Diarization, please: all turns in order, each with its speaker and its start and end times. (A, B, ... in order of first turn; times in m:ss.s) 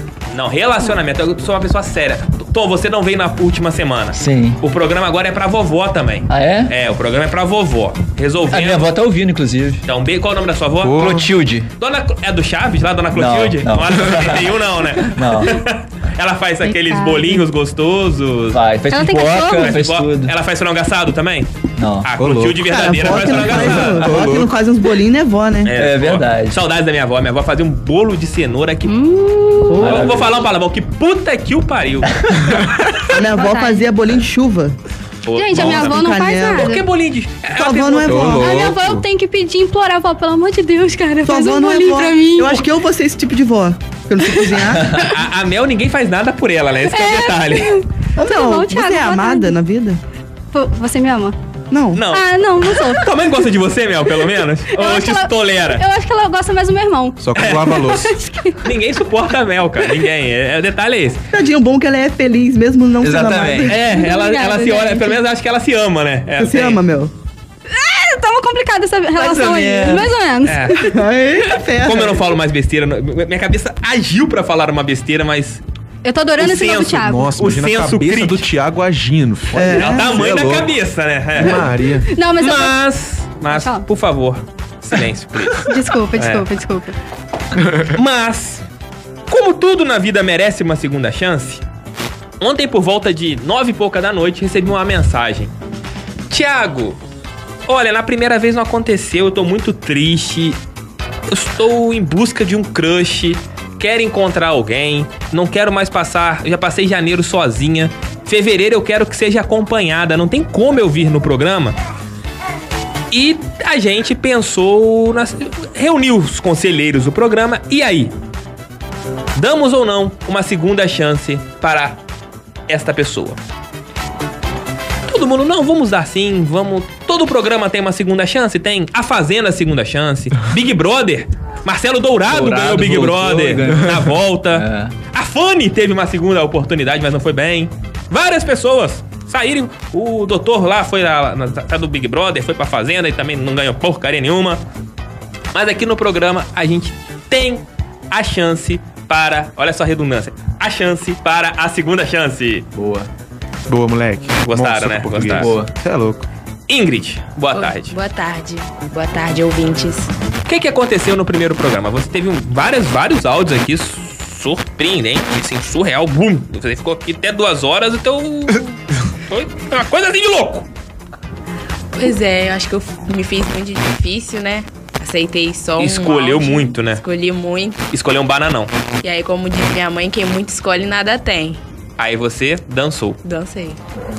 0:00.3-0:08.9 A
0:04.2-0:04.6 B
0:06.3-0:06.7 B
0:08.5-0:09.8 B
0:09.8-0:11.1 A
0:10.8-0:11.3 C
0:11.0-0:11.7 B
0:11.8-0:18.6 A
0:13.1-0:14.5 B
0:15.1-0:15.6 B
0:16.6-0:17.4 D
0:18.5-0:20.3 B
0:18.9-0:19.8 D
0:19.6-0:24.1 A
0:21.8-0:22.1 B
0:22.2-0:24.6 C
0:22.7-0:25.7 E
0:25.6-0:28.9 A
0:25.7-0:26.6 B
0:28.9-0:29.8 D
0:29.7-0:30.2 E
0:29.8-0:30.3 B
0:29.8-0:32.1 A
0:33.1-0:34.8 E
0:33.3-0:33.9 D
0:35.3-0:38.4 A
0:35.4-0:36.8 D
0:35.5-0:36.7 E
0:37.5-0:38.6 E
0:38.0-0:39.0 C
0:38.3-0:42.6 D
0:41.2-0:45.1 E
0:44.9-0:47.8 A
0:46.9-0:49.6 D
0:48.2-0:50.0 E
0:50.5-0:51.4 D
0:51.7-0:52.0 E
0:51.9-0:52.2 A
0:52.1-0:53.1 D
0:52.8-0:55.8 A
0:54.7-0:58.6 D
0:57.2-0:58.2 C
0:57.4-0:57.9 A
0:58.6-1:01.3 A
1:01.3-1:03.8 E
1:03.0-1:03.8 B
1:03.7-1:06.8 A
1:03.8-1:05.2 D
1:06.4-1:07.1 E
1:07.7-1:10.9 D
1:09.2-1:10.1 B
1:10.4-1:10.8 A
1:10.7-1:12.2 E
1:11.8-1:15.6 A
1:16.0-1:17.3 D
1:16.4-1:18.5 A
1:16.9-1:20.8 C
1:19.5-1:20.2 E
1:19.7-1:21.6 A
1:21.4-1:22.1 C
1:22.1-1:22.8 D
1:22.4-1:26.4 A
1:23.5-1:23.8 D
1:25.6-1:27.0 D
1:27.9-1:28.6 A
1:29.3-1:31.6 A
1:32.4-1:35.5 A
1:36.3-1:37.0 A
1:37.7-1:40.6 A
1:41.3-1:51.8 A
1:53.1-1:58.1 A
1:59.4-2:02.0 A
2:02.7-2:03.4 A
2:05.1-2:24.6 A
2:12.3-2:15.0 B
2:25.5-2:32.7 A
2:32.7-2:33.1 B
2:33.7-2:36.2 C
2:34.4-2:35.5 A
2:35.3-2:35.7 B
2:36.7-2:38.0 A
2:37.5-2:40.1 F
2:40.5-2:48.8 A
2:49.3-2:50.7 A
2:52.0-2:57.8 F
2:55.8-2:57.0 A
2:57.9-2:58.7 A
2:59.0-3:01.6 F
3:02.0-3:03.2 A
3:03.2-3:03.8 F